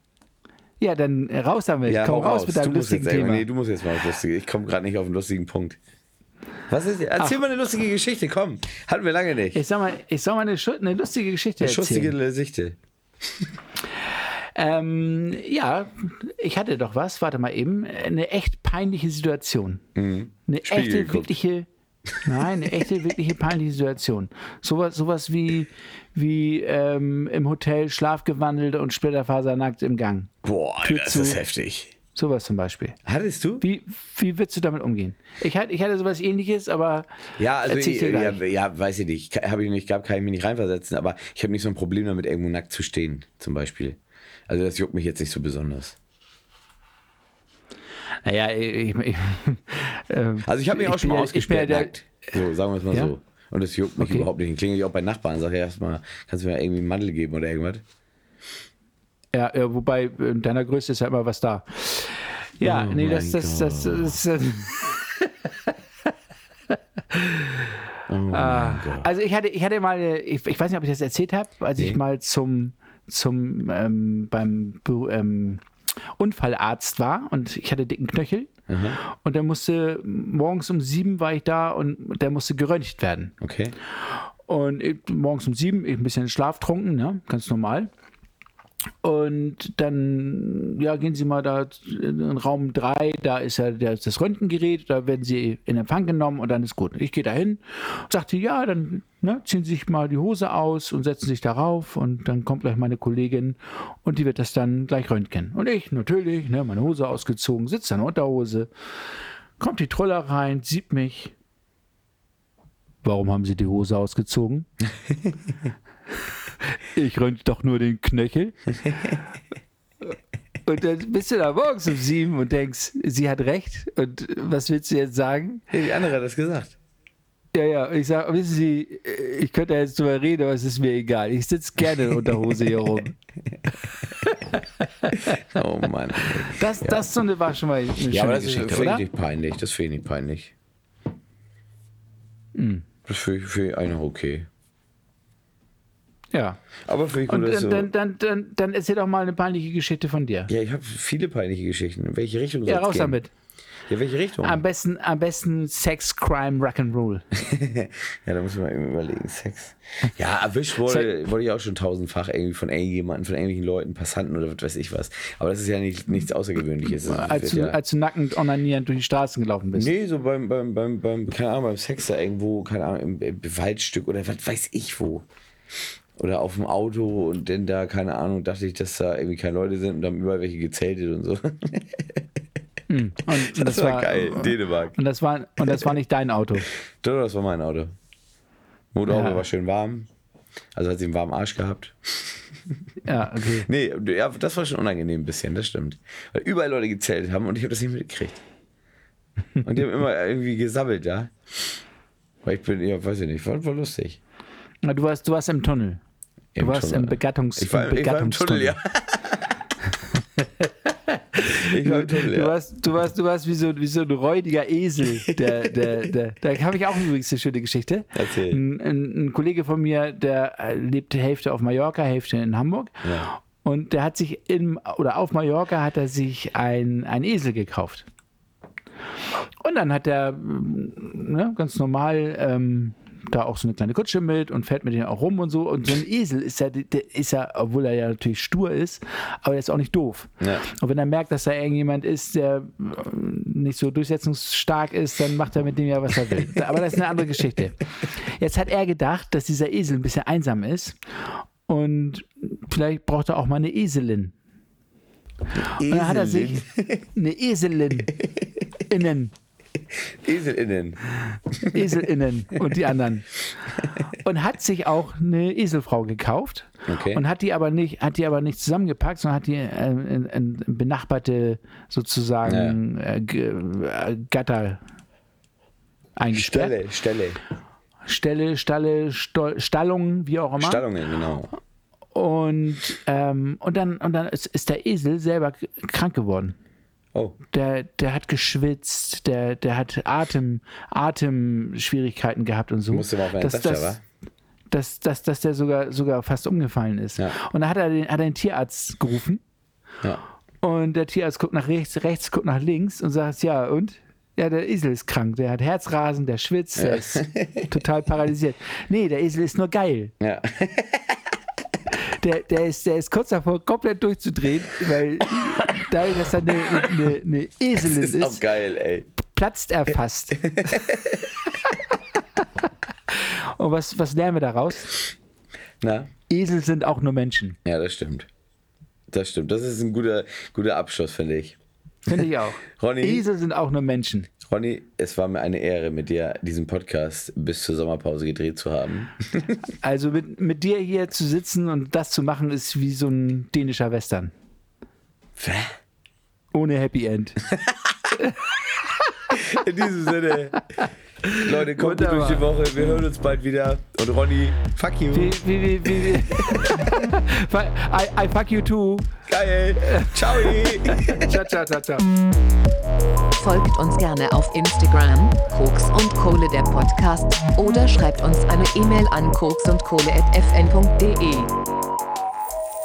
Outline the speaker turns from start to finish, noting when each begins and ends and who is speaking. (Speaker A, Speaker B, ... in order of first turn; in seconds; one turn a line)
Speaker A: 0.8-3.5
Speaker B: 1.9-5.8
Speaker B: 6.7-9.6
Speaker A: 9.5-12.1
Speaker B: 11.6-12.8
Speaker A: 14.6-19.9
Speaker B: 20.0-21.4
Speaker A: 20.5-21.7
Speaker B: 22.2-22.8
Speaker A: 22.2-30.3
Speaker B: 30.4-31.9
Speaker A: 30.8-31.4
Speaker A: 32.1-33.0
Speaker B: 33.0-33.6
Speaker A: 33.6-37.1
Speaker B: 37.4-46.0
Speaker A: 37.6-38.4
Speaker A: 48.2-51.9
Speaker B: 50.4-57.8
Speaker A: 54.0-54.3
Speaker A: 59.3-65.3
Speaker B: 62.6-64.2
Speaker A: 67.1-67.7
Speaker B: 68.1-69.1
Speaker A: 68.3-75.6
Speaker A: 76.2-78.5
Speaker B: 78.7-79.0
Speaker A: 79.0-83.3
Speaker B: 83.4-83.8
Speaker A: 84.5-87.9
Speaker A: 89.0-108.7
Speaker A: 109.6-111.3
Speaker A: 113.0-114.7
Speaker A: 116.9-119.2
Speaker A: 120.7-125.7
Speaker B: 125.7-126.8
Speaker A: 127.5-133.2
Speaker A: 134.2-135.4
Speaker B: 135.2-137.0
Speaker A: 136.5-139.0
Speaker B: 138.1-140.5
Speaker A: 142.6-142.9
Speaker B: 143.1-144.5
Speaker A: 146.3-146.6
Speaker B: 146.9-147.9
Speaker A: 147.3-150.5
Speaker B: 150.5-153.2
Speaker A: 152.7-153.3
Speaker B: 153.9-154.6
Speaker A: 154.4-157.2
Speaker B: 157.3-167.8
Speaker A: 166.9-169.9
Speaker B: 169.8-175.3
Speaker B: 176.2-182.2
Speaker A: 182.9-186.7
Speaker B: 183.3-185.0
Speaker B: 185.6-185.9
Speaker B: 186.8-187.9
Speaker B: 188.9-190.1
Speaker A: 189.1-189.4
Speaker B: 190.8-192.8
Speaker A: 193.1-193.7
Speaker B: 193.4-198.4
Speaker B: 199.6-201.8
Speaker B: 202.4-204.2
Speaker A: 204.8-206.0
Speaker B: 206.6-209.5
Speaker A: 206.6-208.8
Speaker A: 210.4-228.1
Speaker B: 211.5-212.5
Speaker B: 218.1-218.6
Speaker B: 223.0-223.3
Speaker A: 229.6-254.3
Speaker B: 255.6-257.1
Speaker A: 255.6-258.1
Speaker B: 258.2-258.5
Speaker A: 258.9-259.3
Speaker B: 260.0-262.0
Speaker A: 261.7-263.4
Speaker A: 263.9-274.8
Speaker B: 266.9-267.2
Speaker B: 272.5-272.8
Speaker A: 276.2-276.8
Speaker B: 276.3-277.4
Speaker A: 278.1-280.8
Speaker B: 280.6-281.5
Speaker A: 282.1-286.6
Speaker A: 287.5-294.0
Speaker B: 292.9-294.0
Speaker A: 294.7-299.4
Speaker A: 300.6-310.1
Speaker B: 306.8-307.7
Speaker B: 310.2-311.2
Speaker A: 312.0-318.4
Speaker B: 317.8-319.1
Speaker A: 319.2-321.0
Speaker B: 320.4-321.2
Speaker A: 323.1-325.0
Speaker B: 325.8-326.1
Speaker A: 326.3-327.6
Speaker B: 327.6-328.3
Speaker B: 329.1-331.6
Speaker A: 332.1-334.3
Speaker B: 332.7-333.3
Speaker B: 334.4-339.6
Speaker A: 339.8-344.3
Speaker B: 345.4-345.8
Speaker A: 346.5-347.4
Speaker B: 347.5-347.9
Speaker B: 349.3-350.6
Speaker A: 351.2-352.5
Speaker B: 351.4-355.4
Speaker A: 355.1-359.1
Speaker B: 356.1-356.9
Speaker B: 359.3-361.4
Speaker A: 359.9-362.1
Speaker C: 363.4-371.5